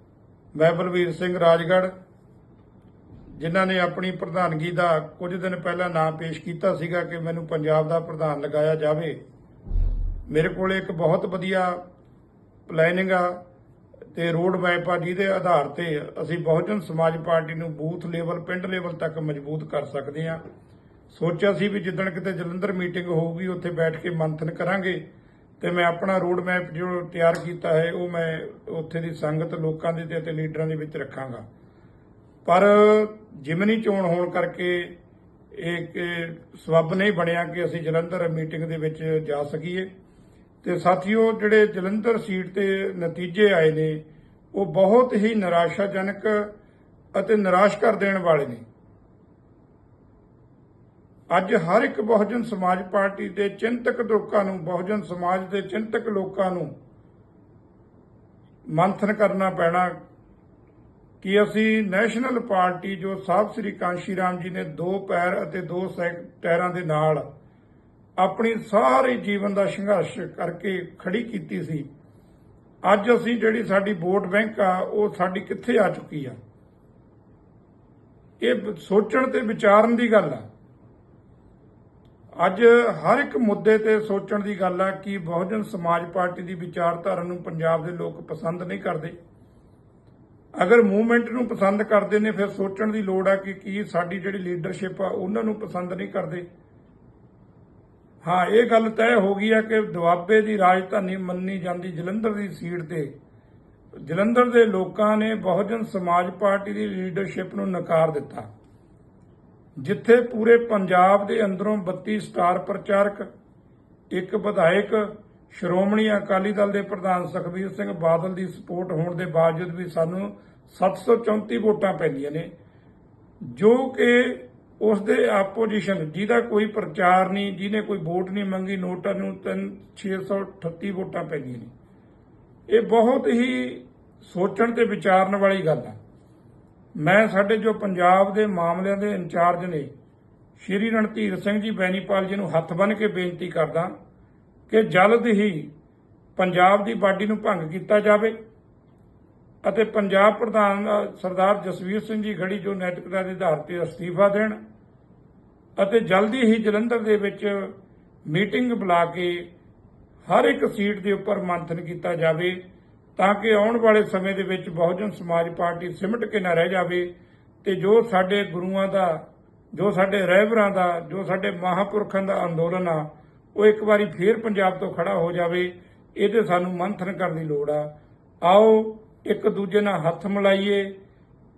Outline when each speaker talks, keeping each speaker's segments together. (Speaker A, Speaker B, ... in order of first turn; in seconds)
Speaker A: 0.5-1.9, 3.4-9.2, 10.3-11.8, 12.7-13.4, 14.1-20.4, 21.1-25.0, 25.6-31.4, 32.4-34.9, 35.5-39.9, 40.6-44.0, 44.5-46.5, 47.1-48.6, 51.3-56.7, 58.7-59.9, 61.2-67.2, 68.2-71.9, 72.8-76.4, 78.4-80.4, 82.4-89.2, 90.6-96.5, 98.2-103.1, 103.9-108.5, 109.8-113.3, 114.1-122.5, 123.4-131.7, 132.7-136.0, 136.9-139.9, 140.6-143.9, 144.7-145.7, 146.3-148.3, 149.6-154.6, 155.8-157.7, 158.2-159.5, 160.2-162.6, 163.2-167.1, 167.6-177.9, 178.4-180.9